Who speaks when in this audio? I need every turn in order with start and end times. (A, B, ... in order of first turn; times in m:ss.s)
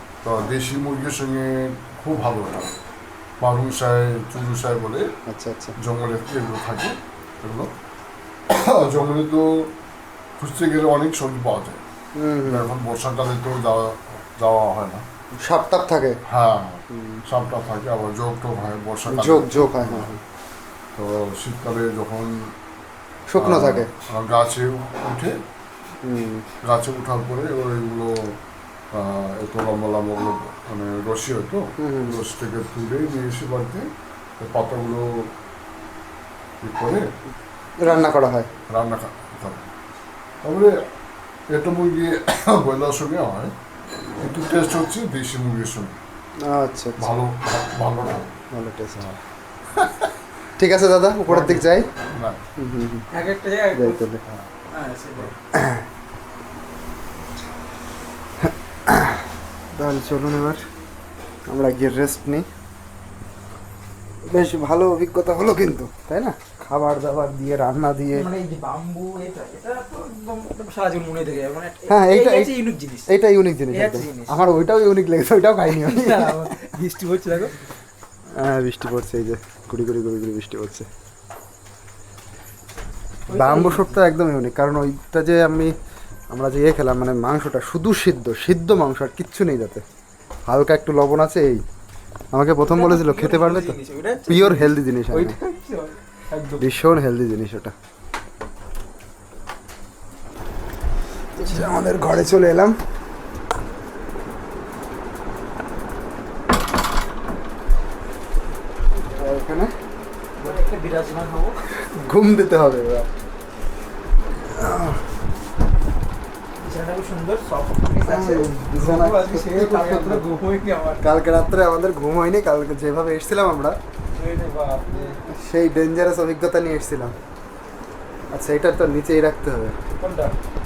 0:00.2-0:02.8 A
0:03.4-0:05.1 A
0:05.3-0:05.8 B
0:05.8-0:07.7 A
0:08.5-0:09.7 A
0:10.4-0:11.8 A
0:12.2-0:12.7 B
0:12.4-0:15.1 A
0:15.4-0:16.2 B
0:16.3-0:20.1 A
0:16.9-0:17.2 B
0:19.1-0:20.2 B
0:21.0-0:22.5 A
0:23.3-0:23.9 B
0:23.4-0:25.4 A
0:26.0-0:26.4 B
0:26.6-0:28.2 A
0:28.9-0:33.9 A
0:31.8-0:32.2 B
0:34.4-0:35.3 A
0:36.6-0:37.1 A
0:37.8-0:38.5 B
0:38.7-0:39.7 A
0:40.4-0:40.8 A
0:41.5-0:43.5 A
0:44.2-0:46.0 A
0:46.4-0:47.1 B
0:47.0-0:48.3 A
0:48.5-0:49.1 B
0:49.8-0:50.1 A
0:50.6-0:51.9 B
0:51.3-0:52.4 A
0:52.6-0:53.1 B
0:53.1-0:54.0 C
0:53.8-0:54.2 B
0:54.7-0:55.4 C
0:55.6-0:55.8 B
0:58.4-0:59.2 B
0:59.8-1:00.6 B
1:01.5-1:02.5 B
1:04.3-1:08.3 B
1:08.2-1:13.1 C
1:11.9-1:12.6 B
1:13.1-1:16.4 B
1:13.7-1:14.4 C
1:15.7-1:17.6 C
1:18.4-1:20.9 B
1:23.3-1:24.0 C
1:23.3-1:25.7 B
1:26.3-1:29.8 B
1:30.5-1:31.6 B
1:32.3-1:33.8 B
1:32.6-1:36.6 C
1:34.3-1:35.4 B
1:36.6-1:37.7 B
1:41.4-1:41.8 C
1:41.4-1:42.8 B
1:49.1-1:49.7 B
1:50.4-1:51.6 C
1:51.8-1:53.1 B
1:54.4-1:55.0 B
1:56.6-2:01.1 C
1:58.1-2:00.3 B
2:01.0-2:03.8 B
2:04.1-2:05.2 C
2:05.3-2:07.1 B
2:08.3-2:09.8 B
2:10.0-2:10.3 C